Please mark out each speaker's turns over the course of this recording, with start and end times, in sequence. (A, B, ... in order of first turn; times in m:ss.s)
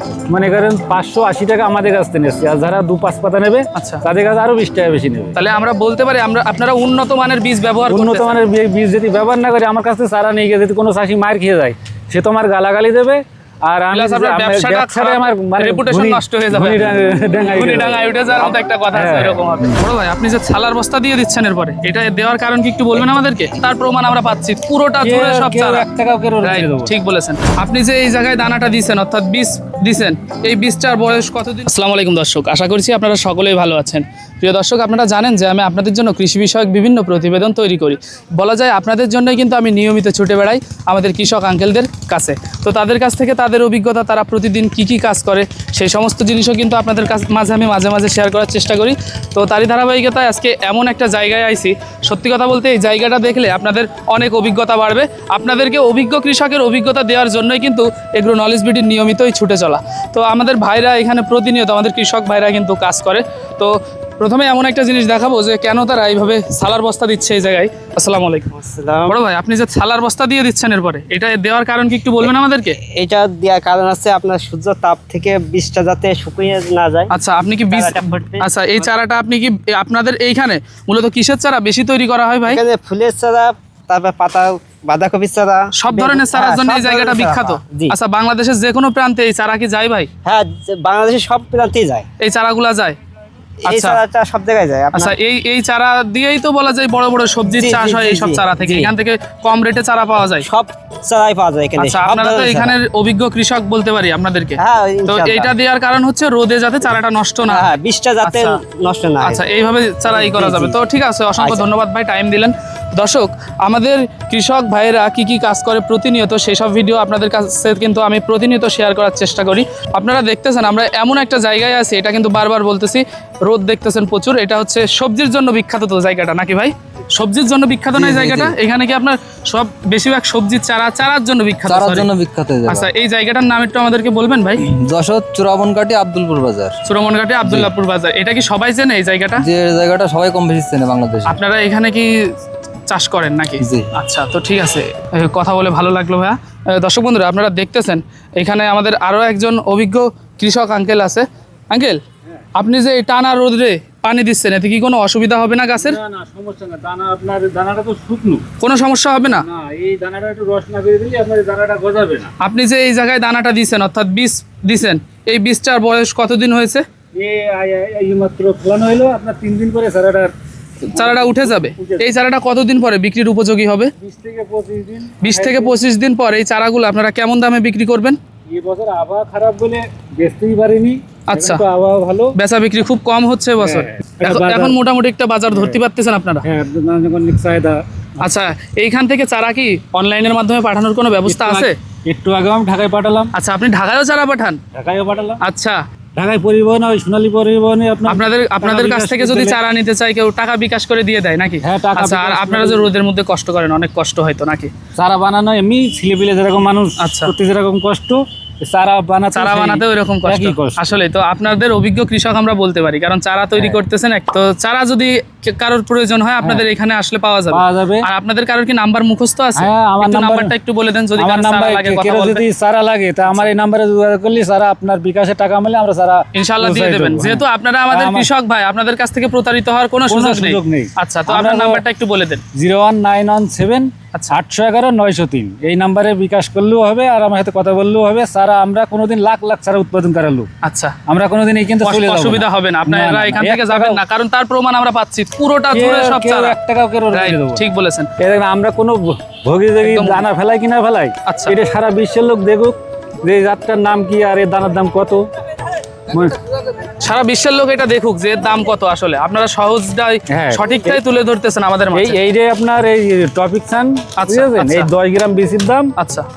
0:00.3-0:05.4 A
0:03.8-0:04.0 B
0:05.4-0:08.4 B
0:07.9-0:19.8 A
0:13.9-0:16.9 B
0:17.4-0:25.9 B
0:25.0-0:26.9 A
0:26.4-1:08.5 B
1:08.5-1:09.2 C
1:09.1-1:12.8 B
1:12.2-1:17.1 C
1:17.1-1:22.6 B
1:17.7-1:18.9 C
1:22.5-1:28.0 C
1:25.8-1:30.1 B
1:30.2-1:32.1 C
1:32.2-1:33.0 B
1:33.6-1:34.0 B
1:33.6-1:35.2 C
1:34.9-1:40.5 B
1:37.4-1:38.9 C
1:40.4-1:42.8 C
1:41.8-1:48.6 B
1:44.6-1:45.5 C
1:47.5-1:49.4 C
1:49.2-2:12.1 B
1:50.1-1:51.7 C
2:08.0-2:08.6 D
2:11.6-2:12.9 D
2:12.7-2:14.6 B
2:14.7-2:16.7 D
2:16.9-2:19.4 B
2:17.4-2:17.7 D
2:19.4-2:21.4 D
2:21.2-2:22.1 B
2:22.9-2:32.0 B
2:32.6-2:36.0 B
2:35.7-2:38.4 A
2:38.6-2:39.4 B
2:39.3-2:42.3 A
2:42.4-2:46.8 B
2:47.2-2:50.3 A
2:50.9-2:53.9 B
2:50.9-2:52.1 A
2:54.0-2:55.8 A
2:55.2-2:58.2 B
2:58.5-3:02.4 A
3:01.3-3:01.6 B
3:02.4-3:06.4 B
3:03.6-3:04.8 A
3:05.5-3:05.8 A
3:06.4-3:07.8 A
3:08.2-3:11.8 B
3:11.2-3:13.3 A
3:13.4-3:14.6 B
3:14.7-3:15.4 A
3:15.4-3:15.8 B
3:16.2-3:19.6 A
3:18.1-3:24.7 B
3:21.6-3:22.9 A
3:25.0-3:30.9 A
3:27.0-3:27.3 B
3:29.3-3:42.4 B
3:37.5-3:38.1 A
3:39.6-3:40.5 A
3:41.2-3:48.3 A
3:46.3-3:52.4 B
3:50.1-3:51.8 A
3:52.5-4:00.5 A
4:00.6-4:01.0 B
4:01.1-4:04.0 A
4:01.8-4:06.6 B
4:05.7-4:07.6 A
4:07.1-4:08.1 B
4:08.2-4:15.2 A
4:09.8-4:10.3 B
4:11.3-4:11.5 B
4:16.1-4:16.4 A
4:17.0-4:22.2 B
4:20.3-4:21.0 A
4:21.9-4:25.9 A
4:24.2-4:24.9 B
4:26.0-4:26.3 B